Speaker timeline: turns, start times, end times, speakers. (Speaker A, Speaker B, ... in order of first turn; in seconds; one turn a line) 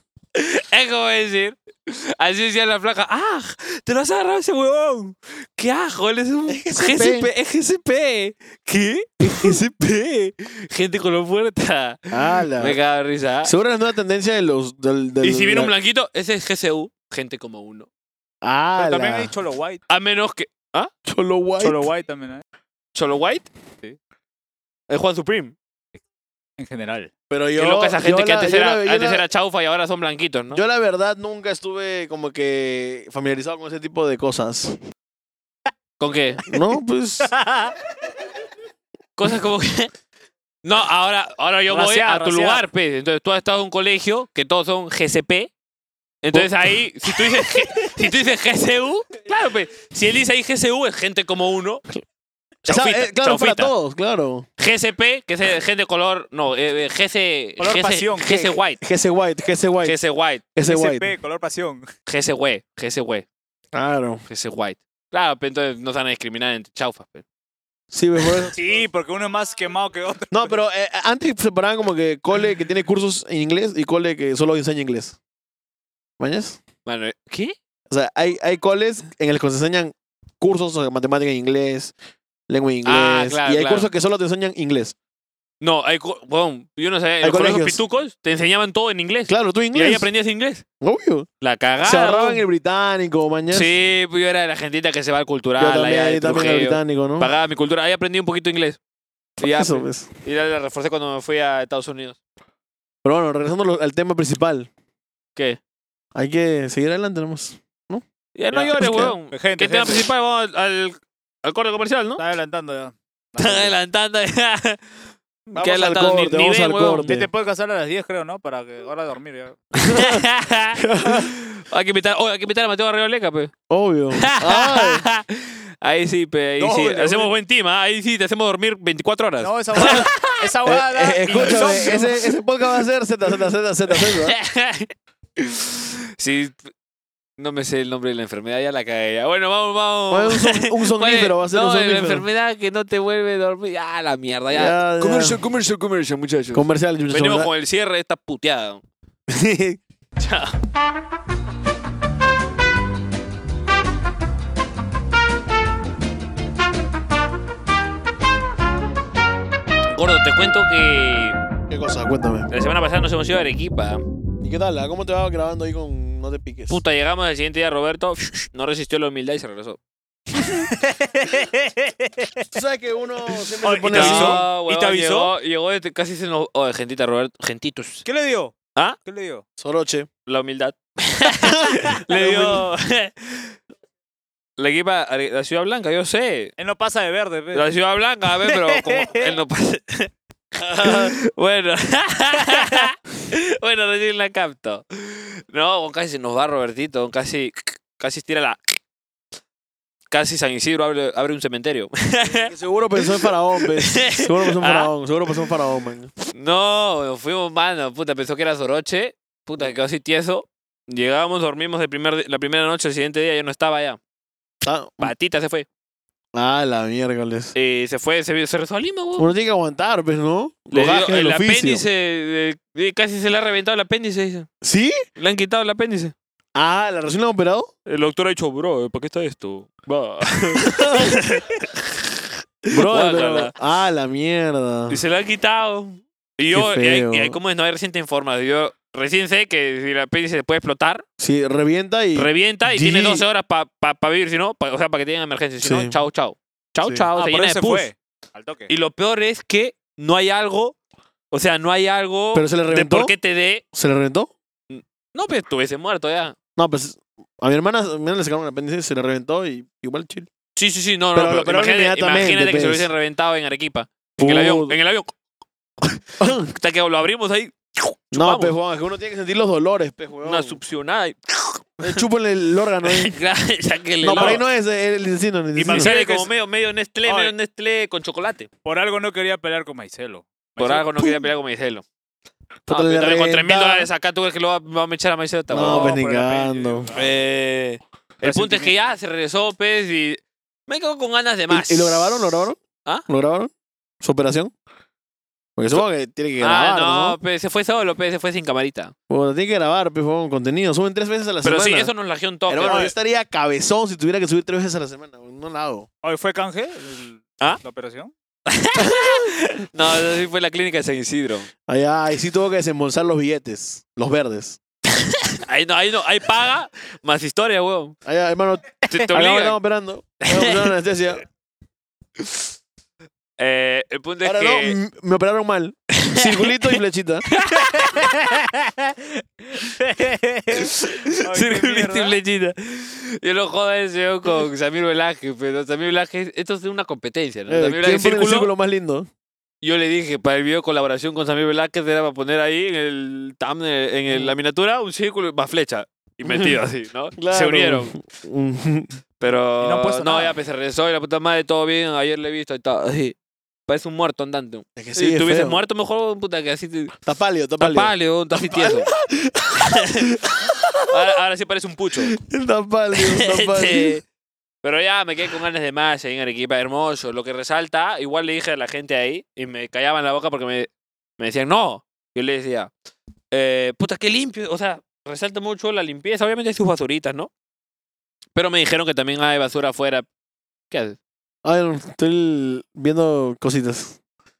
Speaker A: 0.3-13.5
Speaker B: 6.5-7.3
Speaker B: 9.2-9.6
Speaker B: 12.1-12.8
Speaker B: 13.4-15.7
Speaker A: 15.2-17.9
Speaker B: 18.4-19.3
Speaker C: 18.8-19.8
Speaker A: 19.9-20.9
Speaker B: 21.1-21.9
Speaker C: 21.6-22.4
Speaker A: 22.9-23.5
Speaker A: 24.9-25.5
Speaker C: 26.6-27.1
Speaker B: 27.3-29.2
Speaker A: 27.6-30.6
Speaker B: 30.5-34.8
Speaker A: 36.0-36.4
Speaker B: 36.5-37.3
Speaker C: 37.3-37.7
Speaker A: 39.2-39.9
Speaker A: 40.6-45.5
Speaker C: 41.7-42.6
Speaker A: 46.2-51.9
Speaker B: 46.3-47.5
Speaker A: 52.6-53.7
Speaker B: 52.6-54.5
Speaker A: 54.6-58.8
Speaker C: 57.6-58.5
Speaker B: 58.8-60.0
Speaker A: 59.8-60.5
Speaker B: 60.5-61.1
Speaker C: 60.6-61.9
Speaker A: 62.0-63.3
Speaker B: 63.7-64.2
Speaker A: 64.3-67.2
Speaker B: 67.9-68.5
Speaker C: 68.5-70.5
Speaker B: 70.3-75.2
Speaker B: 76.2-76.6
Speaker A: 76.8-77.5
Speaker B: 77.9-81.9
Speaker B: 82.5-84.9
Speaker A: 82.8-83.9
Speaker A: 85.6-90.6
Speaker B: 87.2-87.8
Speaker B: 89.3-90.1
Speaker B: 90.8-91.3
Speaker A: 91.4-92.4
Speaker B: 91.8-93.7
Speaker A: 93.5-98.8
Speaker B: 95.6-97.3
Speaker A: 99.4-102.2
Speaker B: 99.4-100.1
Speaker B: 103.0-104.7
Speaker A: 105.3-105.6
Speaker B: 106.1-109.1
Speaker A: 108.3-112.2
Speaker C: 109.3-110.1
Speaker C: 112.2-113.7
Speaker A: 113.4-114.8
Speaker A: 115.5-117.1
Speaker B: 115.5-117.3
Speaker C: 117.0-120.0
Speaker A: 119.8-123.5
Speaker B: 120.8-121.3
Speaker B: 123.7-125.0
Speaker A: 124.2-130.4
Speaker C: 126.6-127.3
Speaker C: 129.4-132.3
Speaker B: 129.7-130.1
Speaker B: 130.6-134.3
Speaker A: 131.3-131.7
Speaker A: 133.9-136.7
Speaker A: 137.4-148.8
Speaker B: 140.1-142.2
Speaker B: 144.5-145.4
Speaker B: 146.5-147.5
Speaker B: 149.3-149.8
Speaker A: 150.2-150.6
Speaker A: 159.9-161.3
Speaker B: 161.7-162.5
Speaker A: 162.5-164.0
Speaker B: 164.4-166.8
Speaker A: 166.7-169.8
Speaker C: 170.7-172.4
Speaker B: 172.5-174.4
Speaker C: 173.6-175.3
Speaker A: 173.9-178.0
Speaker C: 178.0-179.4
Speaker B: 179.6-180.1
Speaker A: 180.3-183.5
Speaker B: 181.4-182.6
Speaker C: 182.2-182.5
Speaker A: 184.6-186.5
Speaker C: 186.6-187.7
Speaker A: 187.5-198.8
Speaker C: 188.4-189.3
Speaker B: 190.8-191.1
Speaker A: 200.1-204.9
Speaker B: 202.3-206.1
Speaker A: 206.3-214.0
Speaker B: 214.6-215.1
Speaker A: 215.0-215.7
Speaker B: 216.3-217.5
Speaker A: 217.5-219.3
Speaker B: 219.2-221.8
Speaker A: 220.7-224.5
Speaker B: 224.6-225.0
Speaker A: 225.2-226.1
Speaker B: 226.5-227.7
Speaker A: 227.8-232.1
Speaker B: 230.5-231.2
Speaker A: 232.7-233.5
Speaker B: 232.7-235.0
Speaker A: 234.9-241.0
Speaker B: 236.5-237.4
Speaker B: 241.2-243.2
Speaker A: 242.1-247.9
Speaker B: 245.6-245.9
Speaker B: 246.8-247.1
Speaker C: 247.2-248.7
Speaker A: 248.7-250.8
Speaker A: 251.3-253.6
Speaker B: 252.3-253.1
Speaker B: 253.7-254.3
Speaker A: 254.7-256.4
Speaker B: 256.6-260.3
Speaker A: 260.6-265.1
Speaker B: 261.1-262.9
Speaker B: 264.2-264.8
Speaker A: 265.8-268.5
Speaker B: 266.2-266.5
Speaker B: 268.1-270.6
Speaker A: 270.2-272.0
Speaker B: 271.8-273.1
Speaker A: 272.8-274.4
Speaker B: 274.0-275.9
Speaker C: 275.6-276.3
Speaker A: 275.6-278.5
Speaker C: 277.0-277.3
Speaker C: 278.6-280.9
Speaker A: 280.6-281.8
Speaker B: 282.7-283.9
Speaker A: 282.7-286.0
Speaker B: 285.5-286.9
Speaker C: 285.6-287.2
Speaker A: 286.9-293.1
Speaker C: 288.2-288.7
Speaker B: 291.5-294.5
Speaker B: 295.6-297.2
Speaker A: 296.4-298.9
Speaker B: 299.1-301.9
Speaker A: 301.4-302.8
Speaker B: 302.5-305.9
Speaker C: 302.6-302.9
Speaker C: 306.0-308.1
Speaker A: 308.5-311.5
Speaker B: 308.8-309.3
Speaker B: 311.7-314.6
Speaker A: 315.0-317.9
Speaker B: 318.0-321.2
Speaker A: 318.9-319.6
Speaker A: 320.2-320.7
Speaker A: 322.2-322.4
Speaker A: 323.4-324.8
Speaker B: 324.2-327.2
Speaker A: 326.0-326.5
Speaker A: 327.3-328.4
Speaker C: 327.8-328.6
Speaker C: 329.6-332.2
Speaker A: 330.5-338.5
Speaker B: 337.5-339.1
Speaker A: 339.6-347.9
Speaker B: 346.2-346.6
Speaker B: 347.2-348.9
Speaker A: 349.2-353.1
Speaker C: 349.6-350.4
Speaker A: 353.7-356.9
Speaker B: 354.8-355.6
Speaker B: 357.0-361.0
Speaker A: 357.6-358.9
Speaker A: 359.7-360.1
Speaker A: 360.9-362.2
Speaker B: 362.1-364.0
Speaker A: 363.0-364.0
Speaker A: 364.6-372.7
Speaker A: 373.3-377.3
Speaker A: 378.3-380.1
Speaker A: 380.7-381.0
Speaker B: 381.4-384.0